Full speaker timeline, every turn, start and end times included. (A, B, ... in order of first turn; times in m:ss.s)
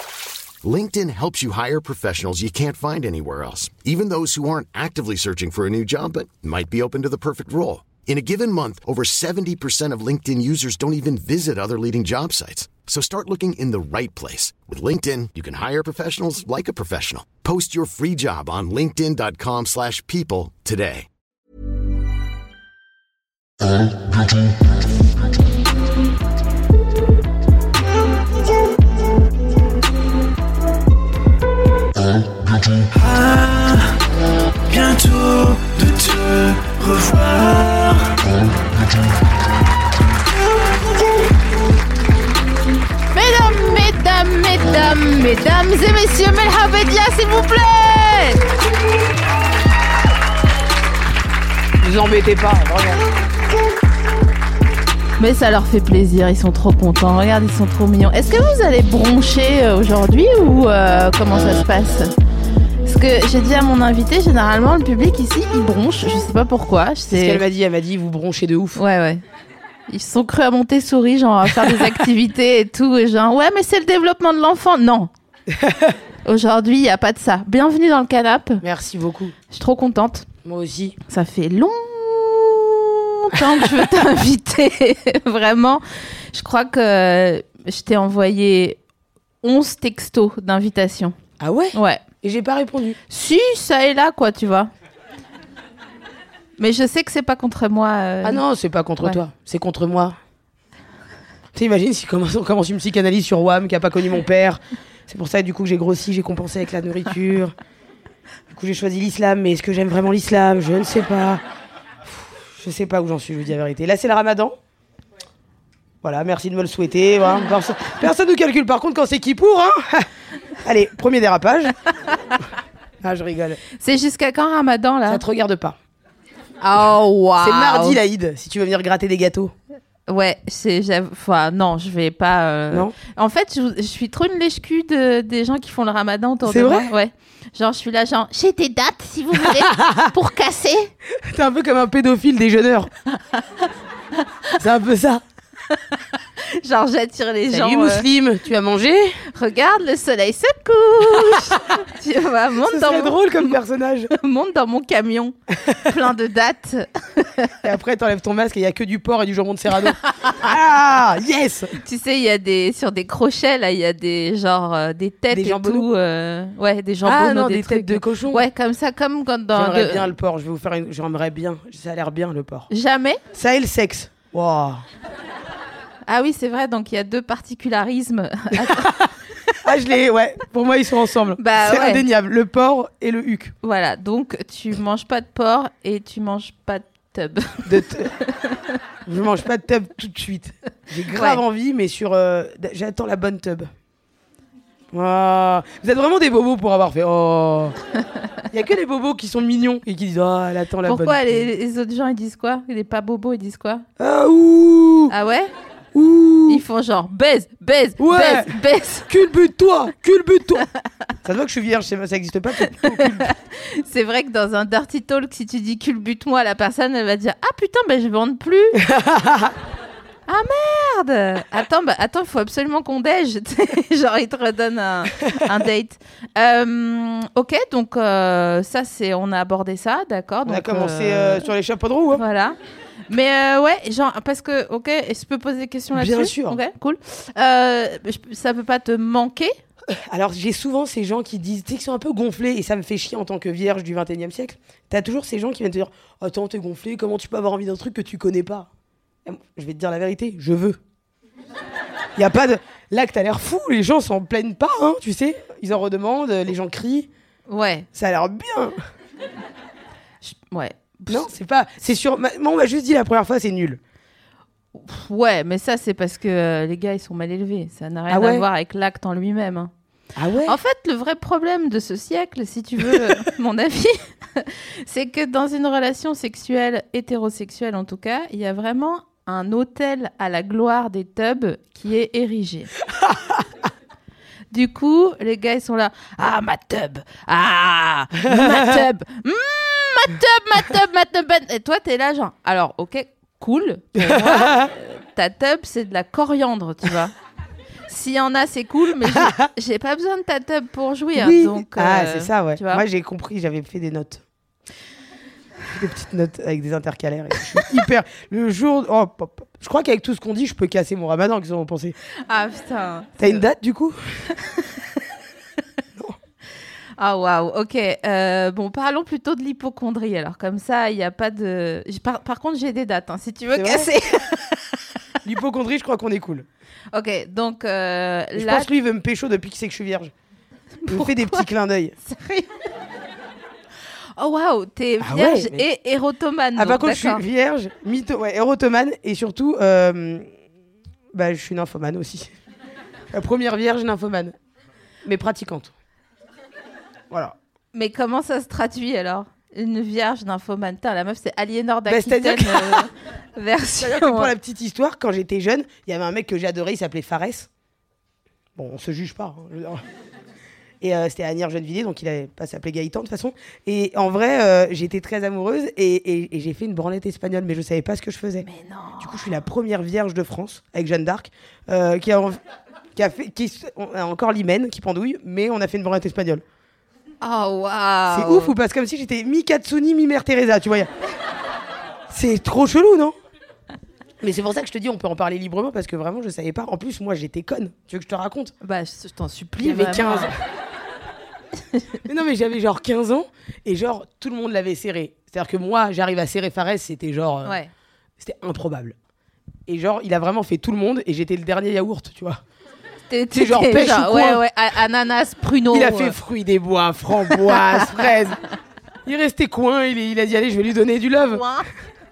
0:00.6-0:21.1 A
0:32.9-0:34.0 B
0:34.7-0:38.2 B
0:43.1-0:48.4 C
0:51.8-0:53.0 D
0:55.2-1:02.1 C
1:02.8-1:07.4 C
1:07.1-1:08.8 D
1:08.8-1:09.2 C
1:09.9-1:15.1 C
1:11.4-1:12.1 D
1:15.5-1:16.0 D
1:16.2-1:18.6 C
1:18.6-1:19.4 D
1:19.5-1:20.3 C
1:20.4-1:21.0 D
1:21.1-1:28.8 C
1:29.4-1:31.2 C
1:31.4-1:33.0 D
1:31.7-1:32.0 C
1:33.1-1:34.7 C
1:36.6-1:38.4 C
1:38.2-1:40.2 D
1:41.5-1:47.5 D
1:48.5-1:51.4 D
1:52.0-1:54.6 D
1:56.0-2:00.1 D
2:00.6-2:01.7 D
2:03.0-2:03.6 D
2:03.8-2:05.2 C
2:05.1-2:05.8 D
2:06.6-2:08.0 C
2:07.4-2:09.5 D
2:10.1-2:20.9 C
2:12.7-2:13.0 D
2:16.5-2:16.9 D
2:19.4-2:20.1 D
2:21.1-2:22.9 D
2:24.3-2:24.5 C
2:24.6-2:25.2 D
2:25.7-2:28.1 C
2:27.5-2:29.2 D
2:29.3-2:33.5 C
2:31.1-2:31.6 D
2:32.6-2:34.1 D
2:34.1-2:37.6 C
2:35.5-2:35.9 D
2:37.6-2:41.8 D
2:41.8-2:50.1 C
2:45.3-2:45.9 D
2:47.0-2:48.4 D
2:49.5-2:52.7 D
2:52.7-2:53.2 C
2:53.3-2:54.8 D
2:56.1-2:59.0 C
2:58.5-2:59.1 D
2:59.6-3:03.5 D
3:01.4-3:02.0 C
3:03.6-3:08.7 C
3:07.6-3:08.1 D
3:09.0-3:13.7 D
3:11.0-3:11.4 C
3:14.9-3:17.8 D
3:18.5-3:21.4 D
3:20.8-3:23.8 C
3:24.0-3:25.1 D
3:25.1-3:25.5 C
3:25.9-3:26.6 D
3:26.5-3:29.1 C
3:28.0-3:28.6 D
3:29.1-3:30.6 D
3:31.2-3:33.3 D
3:32.8-3:38.8 C
3:38.8-3:39.6 D
3:40.3-3:51.5 C
3:50.4-3:52.2 D
3:52.1-3:52.6 C
3:53.1-3:59.6 C
3:55.9-3:56.6 D
3:59.9-4:08.7 D
4:09.2-4:10.8 D
4:12.2-4:17.1 D
4:17.5-4:17.9 C
4:17.9-4:18.8 D
4:20.2-4:21.3 C
4:21.1-4:23.8 D
4:24.7-4:29.7 C
4:28.1-4:28.4 D
4:30.2-4:30.6 D
4:30.4-4:42.7 C
4:43.0-4:43.4 D
4:44.5-4:57.1 C
4:48.2-4:48.8 D
4:54.0-4:54.7 D
4:57.9-5:02.8 C
4:59.0-4:59.5 D
5:01.1-5:04.2 D
5:05.7-5:12.0 D
5:12.2-5:13.4 C
5:13.2-5:14.2 D
5:14.4-5:14.8 C
5:17.0-5:24.8 C
5:23.5-5:24.0 D
5:25.2-5:26.5 D
5:26.9-5:28.7 C
5:28.4-5:30.1 D
5:30.8-5:31.4 C
5:30.9-5:31.9 D
5:32.0-5:32.5 C
5:34.2-5:37.2 C
5:35.0-5:35.6 D
5:36.6-5:40.3 D
5:41.1-5:42.3 D
5:43.1-5:44.3 D
5:45.0-5:45.7 D
5:47.1-5:47.4 D
5:47.7-5:54.3 C
5:51.9-5:52.9 D
5:53.8-5:57.5 D
5:58.6-5:59.8 D
6:00.8-6:08.5 D
6:08.4-6:09.4 C
6:09.0-6:12.4 D
6:12.9-6:16.4 D
6:17.2-6:18.5 C
6:18.1-6:20.9 D
6:22.1-6:23.1 D
6:24.2-6:28.5 D
6:28.6-6:30.3 C
6:29.6-6:30.3 D
6:32.0-6:37.6 D
6:37.4-6:37.7 C
6:38.2-6:39.0 D
6:39.7-6:42.4 D
6:43.1-6:46.2 C
6:43.3-6:44.4 D
6:45.7-6:48.4 D
6:47.3-6:48.0 C
6:49.0-6:51.4 D
6:51.3-6:51.7 C